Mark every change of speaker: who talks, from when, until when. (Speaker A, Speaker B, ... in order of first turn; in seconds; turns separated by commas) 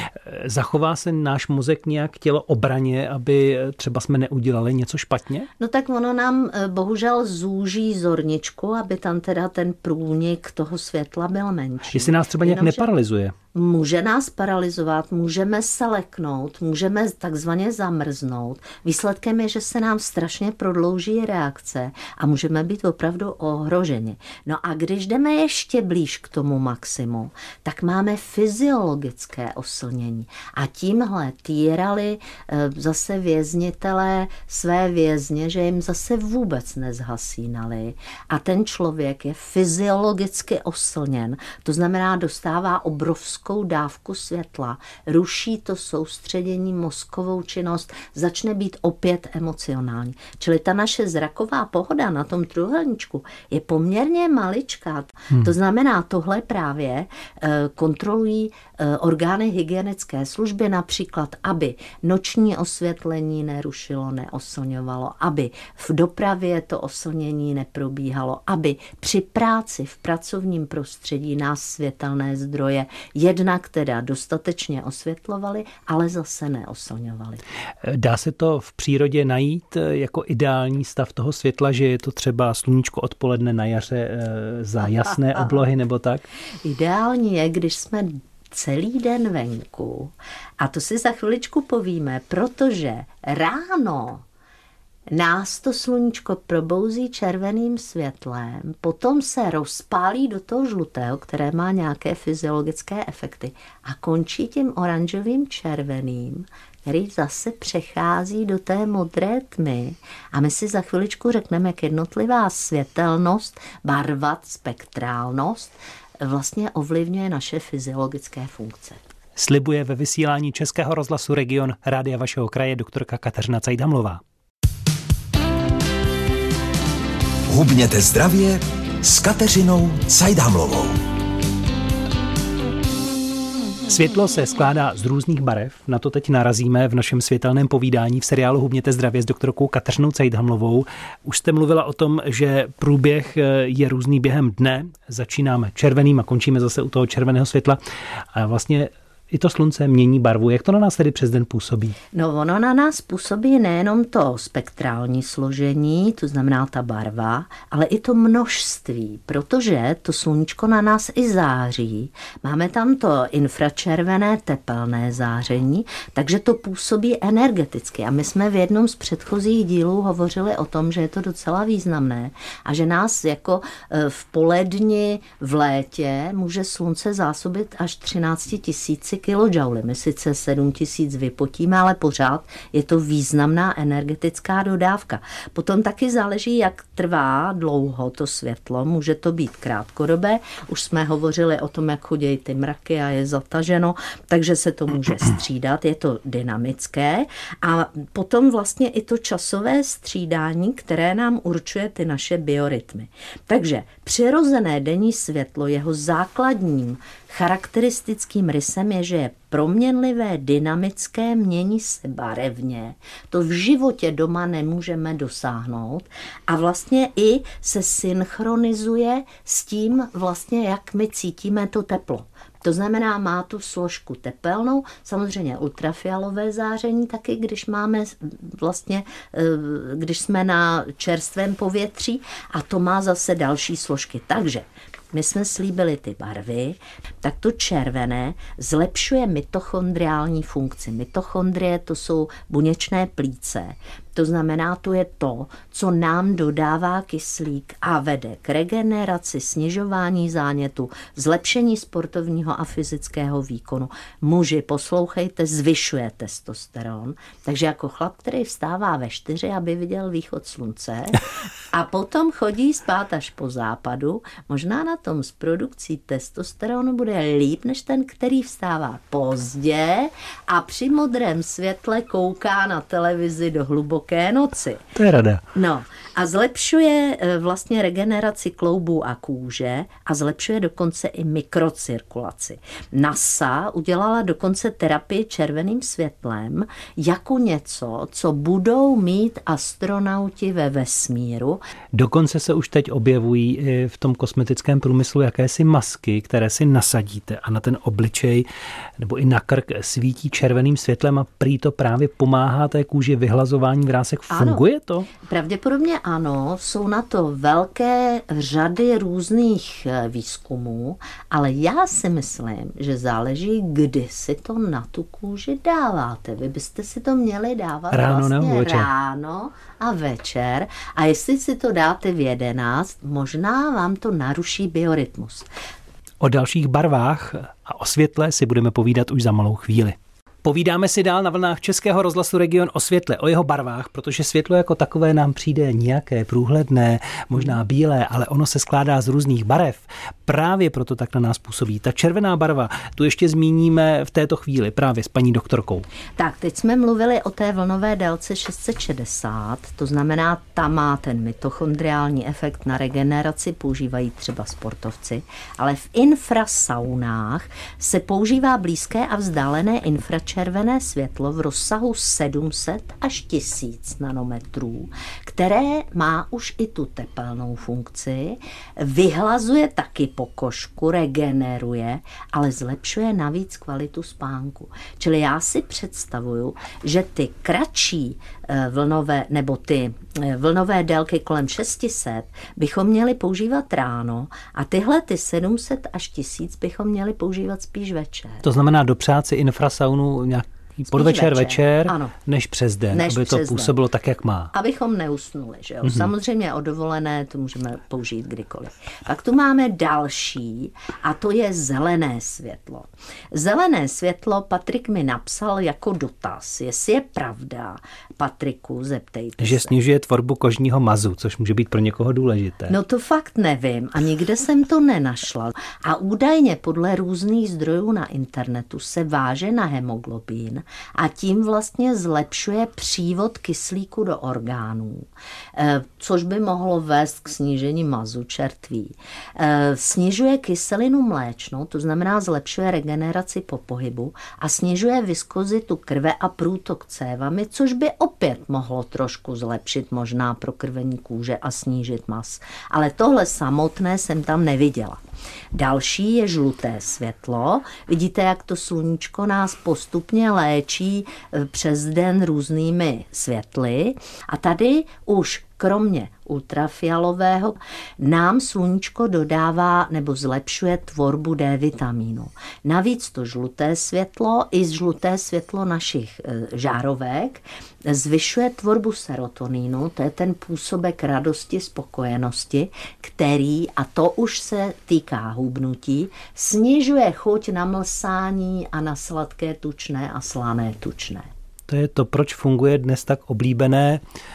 Speaker A: 0.2-5.5, Speaker B: 5.6-12.8, Speaker A: 11.9-13.3, Speaker B: 13.5-77.4, Speaker A: 77.8-86.3, Speaker B: 86.6-94.2, Speaker B: 95.1-119.1, Speaker A: 119.4-124.2, Speaker C: 127.5-131.0, Speaker A: 133.9-147.8, Speaker A: 148.3-152.0, Speaker B: 152.1-261.2, Speaker B: 261.7-274.9, Speaker A: 275.0-275.4, Speaker B: 275.6-291.6, Speaker A: 291.9-298.5, Speaker A: 299.0-305.1, Speaker B: 304.3-304.6, Speaker B: 305.2-325.5, Speaker A: 317.9-318.9, Speaker A: 326.2-345.9, Speaker B: 346.2-388.4, Speaker A: 388.4-394.5, Speaker B: 390.9-392.1, Speaker B: 392.9-393.7, Speaker B: 394.5-409.7, Speaker A: 395.8-396.1, Speaker A: 409.4-412.7, Speaker B: 412.7-445.0, Speaker B: 445.5-481.3, Speaker A: 481.7-484.0